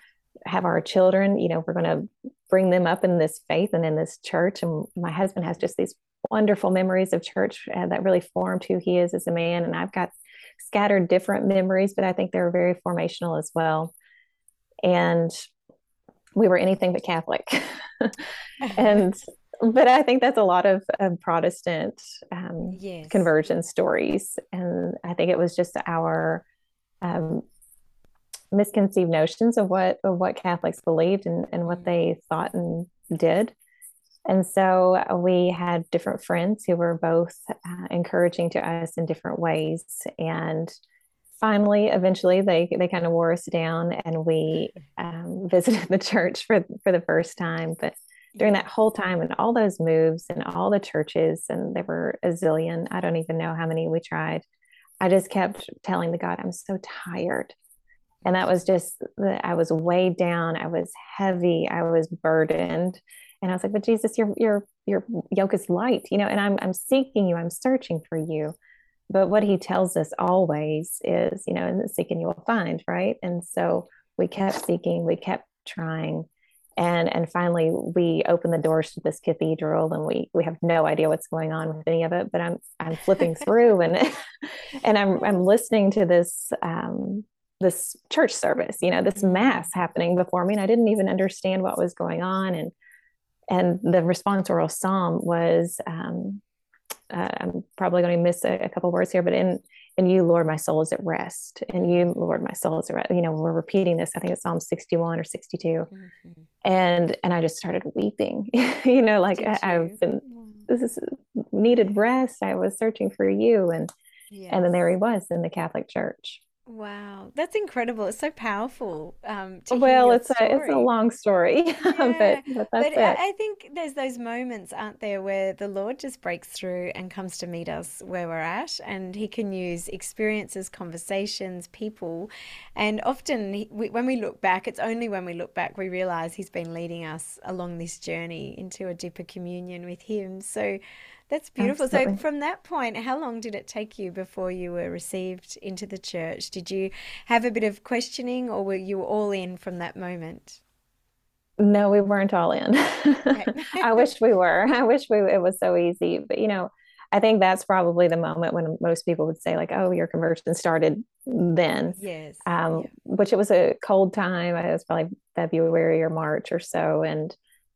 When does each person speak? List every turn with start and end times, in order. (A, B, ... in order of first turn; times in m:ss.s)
0:00.5-0:13.9 A
0:14.8-0:15.3 A
0:16.4-0:26.4 A
0:18.6-0:19.0 B
0:22.7-0:23.3 B
0:27.0-0:27.4 A
0:28.5-0:33.6 A
0:31.7-0:31.9 B
0:34.3-0:40.7 A
0:41.4-0:54.4 A
0:48.4-0:48.6 B
0:55.0-0:57.6 A
0:58.3-1:08.5 A
1:09.1-1:16.3 A
1:16.8-1:32.7 A
1:29.2-1:29.5 B
1:33.5-1:36.4 A
1:37.1-1:45.9 A
1:41.8-1:42.1 B
1:45.9-1:46.5 B
1:46.6-1:53.9 A
1:49.3-1:50.7 B
1:54.3-1:54.8 B
1:54.5-1:56.4 A
1:56.7-2:00.9 B
1:59.7-2:03.2 A
2:01.9-2:30.6 B
2:21.6-2:22.2 A
2:31.6-2:47.4 A
2:33.3-2:34.1 B
2:42.0-2:42.9 B